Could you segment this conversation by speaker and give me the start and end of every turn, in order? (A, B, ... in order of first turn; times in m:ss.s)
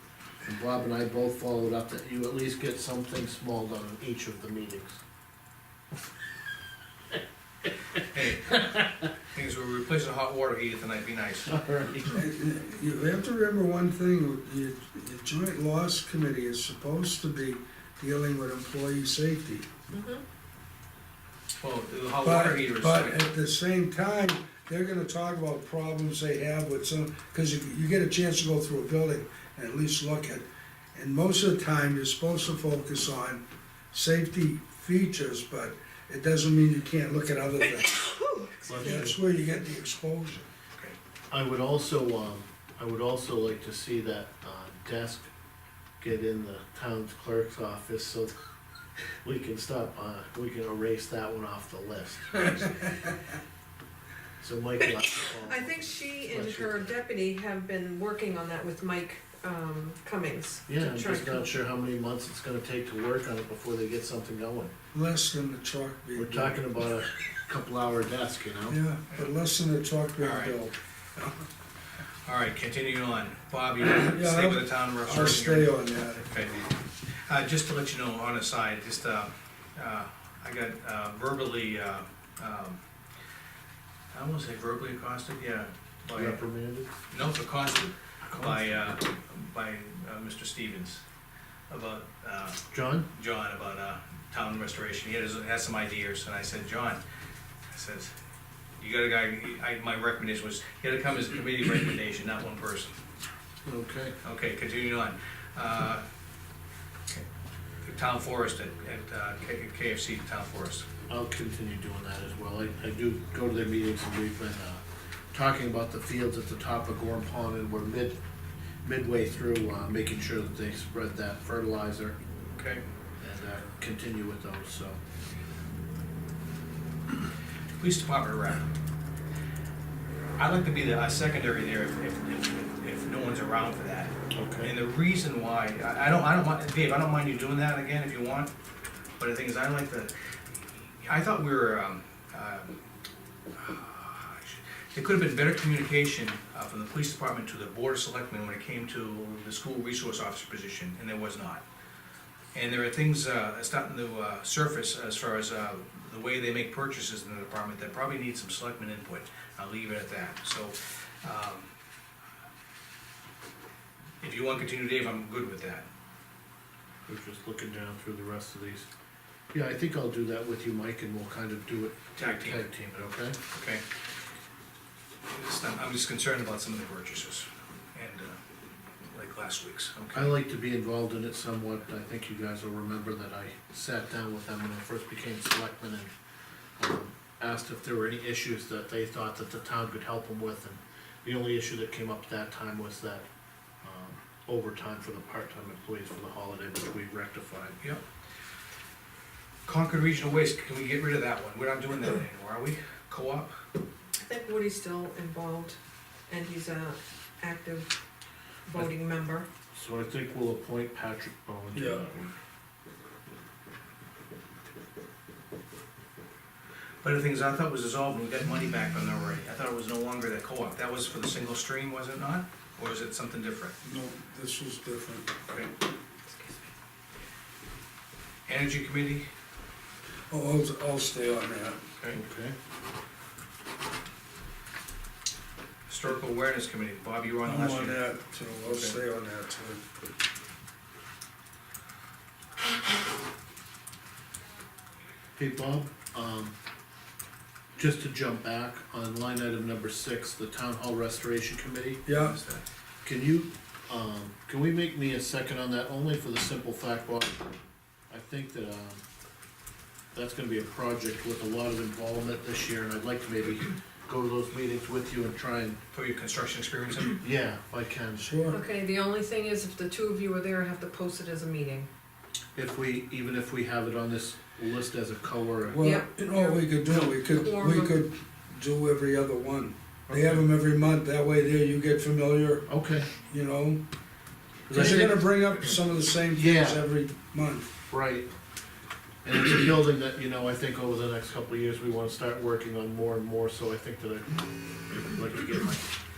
0:00.4-0:05.0 A
0:08.1-0:08.8 B
0:09.3-0:11.5 B
0:11.5-0:12.2 A
0:12.1-0:19.7 C
0:19.9-0:20.2 D
0:21.6-0:23.2 B
0:22.2-0:38.0 C
0:37.7-0:39.0 D
0:38.7-0:39.2 A
0:38.8-0:40.4 C
0:41.3-0:45.3 A
0:46.0-0:48.4 A
0:49.2-0:52.9 A
0:54.4-0:57.0 A
0:55.2-1:01.5 D
1:00.7-1:04.7 A
1:04.9-1:06.6 C
1:06.2-1:08.8 A
1:08.7-1:11.3 C
1:10.2-1:10.6 B
1:12.2-1:22.8 B
1:14.0-1:16.2 C
1:24.1-1:26.4 B
1:26.1-1:26.9 A
1:27.1-1:31.0 B
1:28.2-1:28.7 A
1:31.7-1:37.0 B
1:32.7-1:33.1 A
1:37.7-1:38.1 B
1:38.8-1:42.9 B
1:43.6-1:44.2 A
1:44.2-1:46.0 B
1:47.8-1:50.8 B
1:51.1-1:58.2 A
1:58.8-2:02.2 A
2:02.6-2:02.8 B
2:03.2-2:05.0 A
2:07.8-2:08.7 B
2:10.4-2:18.5 B
2:14.3-2:14.7 A
2:19.2-2:20.1 B
2:20.7-2:22.8 B
2:23.5-2:31.6 B
2:32.5-2:41.7 B
2:44.2-2:45.8 B
2:47.1-2:48.9 A
2:49.5-2:53.4 A
2:52.2-2:52.6 B
2:53.5-2:53.8 B
2:55.2-2:58.4 B
2:59.1-3:00.4 B
3:00.1-3:06.1 A
3:06.8-3:13.2 A
3:13.8-3:17.8 A
3:19.6-3:23.5 B
3:24.2-3:25.8 D
3:26.3-3:27.9 D
3:28.7-3:29.5 D
3:29.7-3:32.3 A
3:31.7-3:32.0 C
3:37.0-3:43.8 B
3:43.8-3:45.3 C
3:46.3-3:46.6 D
3:48.5-3:49.3 B
3:50.3-3:51.8 C
3:52.1-3:52.5 A
3:55.9-3:58.0 B
3:57.4-3:59.8 C
3:58.6-3:59.0 B
4:05.4-4:06.5 A
4:07.8-4:12.0 A
4:12.0-4:12.3 C
4:12.1-4:12.6 B
4:13.0-4:17.5 A
4:18.1-4:19.0 A
4:20.1-4:25.8 A
4:25.9-4:27.2 B
4:27.2-4:28.3 A
4:28.2-4:28.6 C
4:28.5-4:31.9 D
4:32.6-4:35.9 A
4:35.6-4:42.6 C
4:35.8-4:38.0 D
4:40.1-4:40.4 A
4:42.7-4:43.1 A
4:43.2-4:43.8 C
4:44.7-4:45.3 A
4:44.7-4:47.7 C
4:46.3-4:46.8 A
4:47.9-4:48.2 A
4:49.2-4:55.9 A